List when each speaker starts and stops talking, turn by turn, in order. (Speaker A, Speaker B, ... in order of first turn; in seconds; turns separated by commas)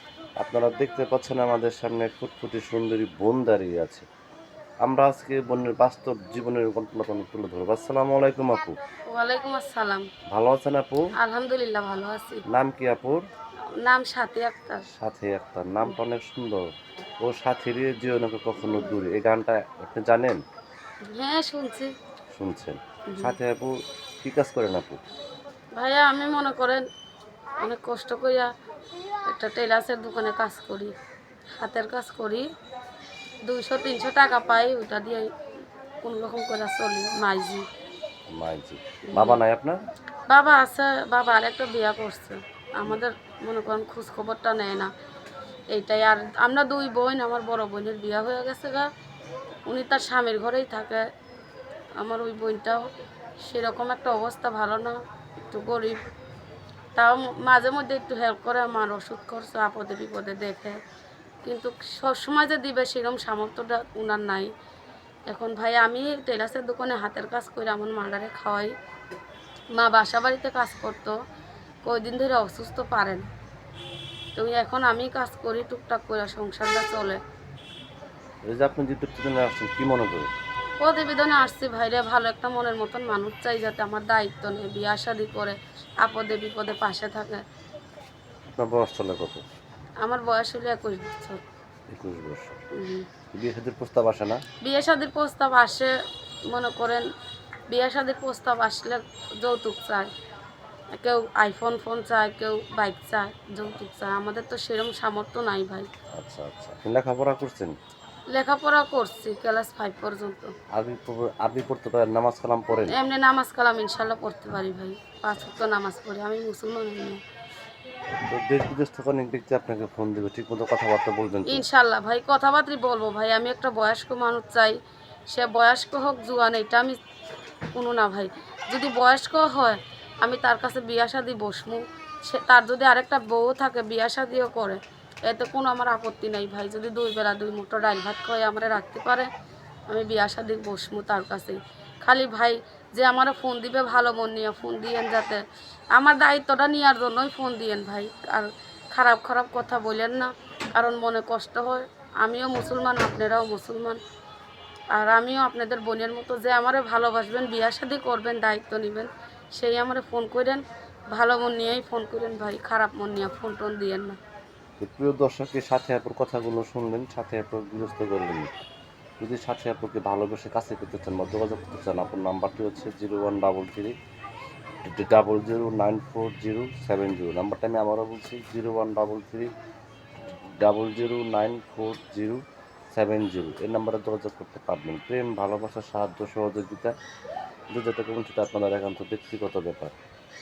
Speaker A: 0.4-4.0, Speaker A: 4.8-8.8, Speaker B: 9.1-10.1, Speaker A: 10.3-11.1, Speaker B: 11.2-12.4, Speaker A: 12.5-13.2, Speaker B: 13.8-14.8, Speaker A: 14.9-16.6, Speaker A: 17.2-20.4, Speaker B: 21.1-21.9, Speaker A: 22.3-25.0, Speaker B: 23.1-23.3, Speaker B: 25.8-26.8, Speaker B: 27.6-28.5, Speaker B: 29.2-30.9, Speaker B: 31.6-32.5, Speaker B: 33.5-35.3, Speaker B: 36.0-37.6, Speaker A: 38.3-39.8, Speaker B: 39.1-39.4, Speaker B: 40.3-44.9, Speaker B: 45.7-48.9, Speaker B: 49.7-51.0, Speaker B: 52.0-52.8, Speaker B: 53.4-55.0, Speaker B: 55.5-56.0, Speaker B: 57.0-60.8, Speaker B: 61.4-64.5, Speaker B: 65.3-68.7, Speaker B: 69.8-71.1, Speaker B: 71.8-73.3, Speaker B: 74.3-77.2, Speaker A: 78.4-80.3, Speaker B: 80.8-87.4, Speaker A: 88.5-89.4, Speaker B: 90.0-91.4, Speaker A: 91.9-92.6, Speaker B: 92.7-93.1, Speaker A: 93.3-94.4, Speaker B: 94.6-95.9, Speaker B: 96.5-97.0, Speaker B: 97.7-100.1, Speaker B: 100.9-105.9, Speaker A: 106.2-107.8, Speaker B: 108.3-110.5, Speaker A: 110.7-113.0, Speaker B: 112.9-117.2, Speaker A: 118.2-121.6, Speaker B: 121.5-124.8, Speaker B: 125.3-127.0, Speaker B: 127.7-139.3, Speaker B: 139.9-145.4, Speaker B: 145.9-154.0, Speaker B: 154.9-164.2, Speaker A: 164.8-168.5, Speaker A: 169.2-173.9, Speaker A: 174.8-179.5, Speaker A: 180.6-182.4, Speaker A: 182.9-186.9, Speaker A: 187.7-189.9